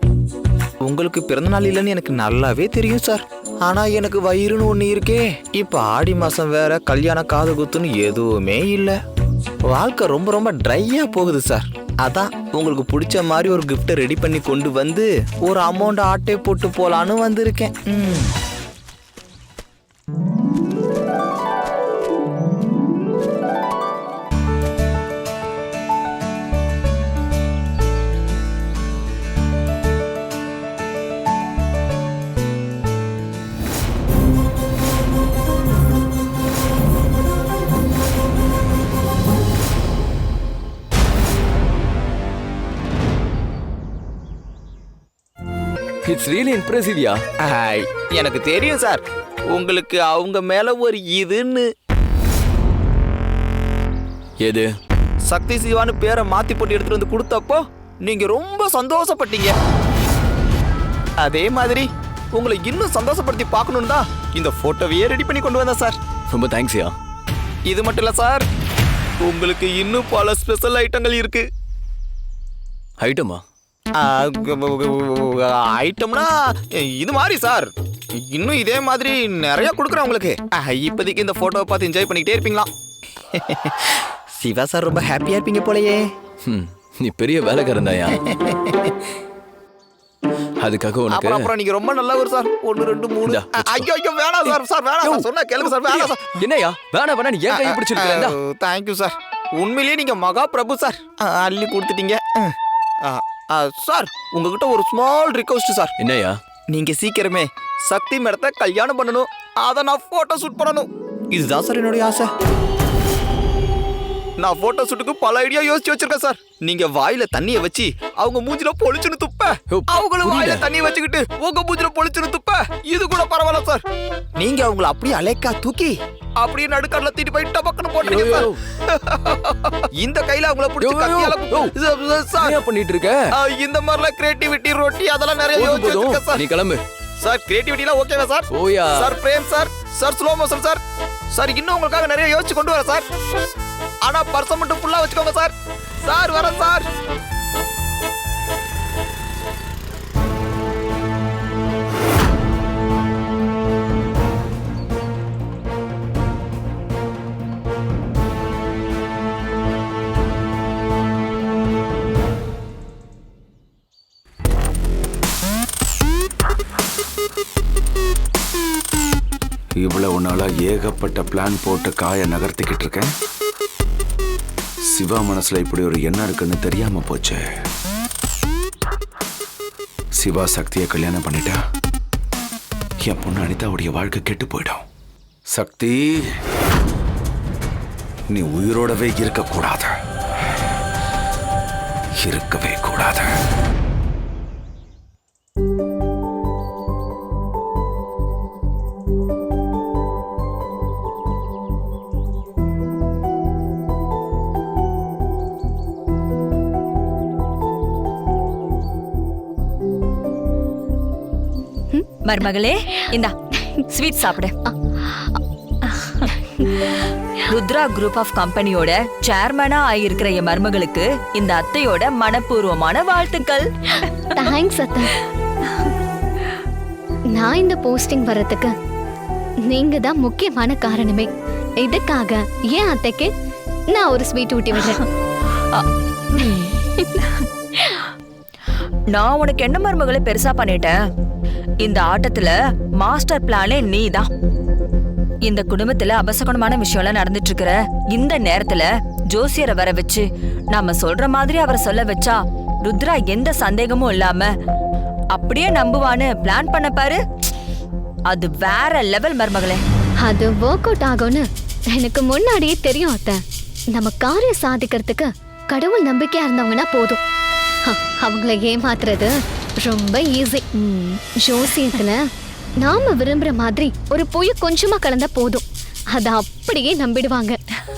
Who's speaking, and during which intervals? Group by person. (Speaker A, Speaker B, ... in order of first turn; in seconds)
Speaker A: 0.8-9.0, 9.7-18.3, 47.4-51.7, 55.2-59.5, 61.2-66.0, 67.7-68.5, 69.2-71.5, 73.9-82.7, 83.3-86.1, 88.1-88.9, 91.1-96.4, 97.5-105.9, 106.7-112.3, 114.4-123.8, 124.4-132.7, 133.3-136.5, 137.2-143.1, 144.0-146.9
Speaker B: 46.1-47.2, 54.4-54.7, 66.3-67.0, 73.0-73.4, 86.4-88.1, 90.6-91.5, 93.2-98.4, 106.0-106.4, 119.7-120.7, 128.1-128.6, 130.8-131.7, 132.4-133.3, 135.5-136.8, 138.5-139.1
Speaker C: 169.8-173.1, 174.9-177.4, 180.2-181.6, 183.0-184.8, 185.5-186.3, 188.3-189.9, 192.2-193.3
Speaker D: 212.2-213.3, 213.9-214.5, 217.5-224.1, 235.8-237.4, 239.1-240.9, 241.8-244.3, 245.4-254.5, 255.3-257.2, 258.3-259.8
Speaker E: 214.7-215.4, 216.2-216.7, 224.3-225.1, 227.3-228.7, 229.7-231.3, 231.8-233.3, 233.9-235.0, 260.2-263.4, 263.9-267.2, 267.9-272.2, 272.8-277.6